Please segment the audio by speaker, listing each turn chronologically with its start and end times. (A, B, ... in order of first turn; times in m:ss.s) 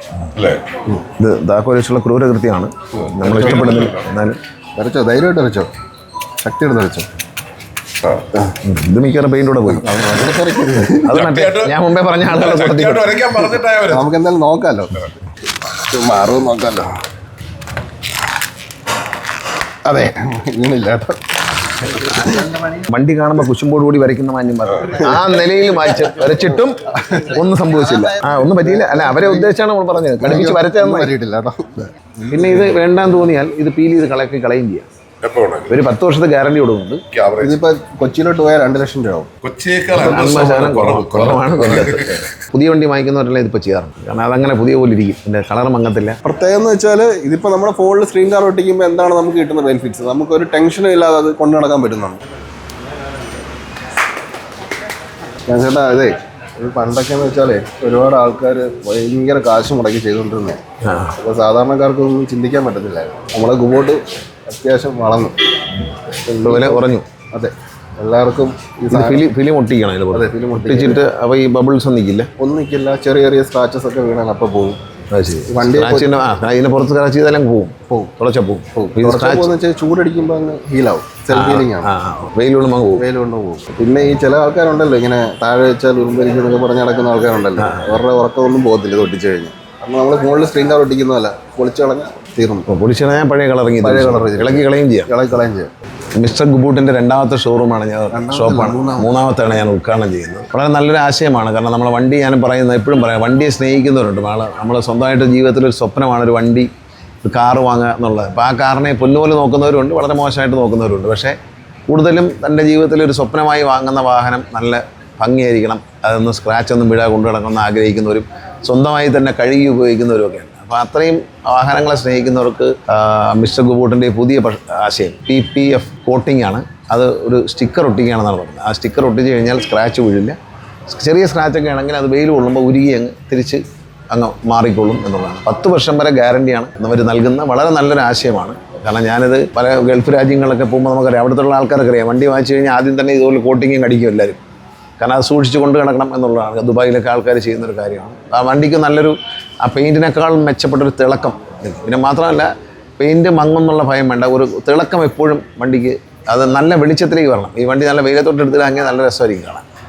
0:00.4-0:00.7 A
0:01.2-0:04.4 B
0:03.1-0:04.1 A
0:03.2-0:03.8 C
0:04.8-0:05.7 C
0:06.4-0:07.1 C
0:08.6-0:09.9 B
0:09.7-0:11.2 C
0:11.0-0:13.3 B
0:11.0-0:11.7 A
0:12.3-0:14.1 A
0:13.9-0:15.1 C
0:15.7-0:16.9 C
0:19.8-0:22.8 C
0:22.9-0:31.1 B
0:26.9-0:29.5 C
0:30.2-0:31.9 C
0:32.3-0:34.9 B
0:35.2-0:35.8 A
0:35.7-0:37.0 B
0:37.1-0:37.6 A
0:37.4-0:39.3 C
0:39.4-0:42.3 A
0:39.9-0:46.2 B
0:46.2-0:52.2 C
0:55.5-1:00.6 C
1:00.8-1:01.2 B
1:01.2-1:05.4 C
1:06.2-1:09.3 C
1:06.4-1:07.1 B
1:08.9-1:12.3 B
1:10.1-1:11.0 C
1:12.4-1:14.8 C
1:15.1-1:19.5 B
1:15.5-1:16.1 C
1:18.7-1:21.9 C
1:21.3-1:23.0 B
1:23.0-1:32.7 C
1:27.6-1:28.0 B
1:32.7-1:35.1 B
1:33.8-1:35.7 C
1:36.2-1:46.7 B
1:38.1-1:39.1 C
1:47.2-1:51.4 B
1:51.9-2:10.4 B
2:10.9-2:24.4 B
2:25.0-2:39.6 B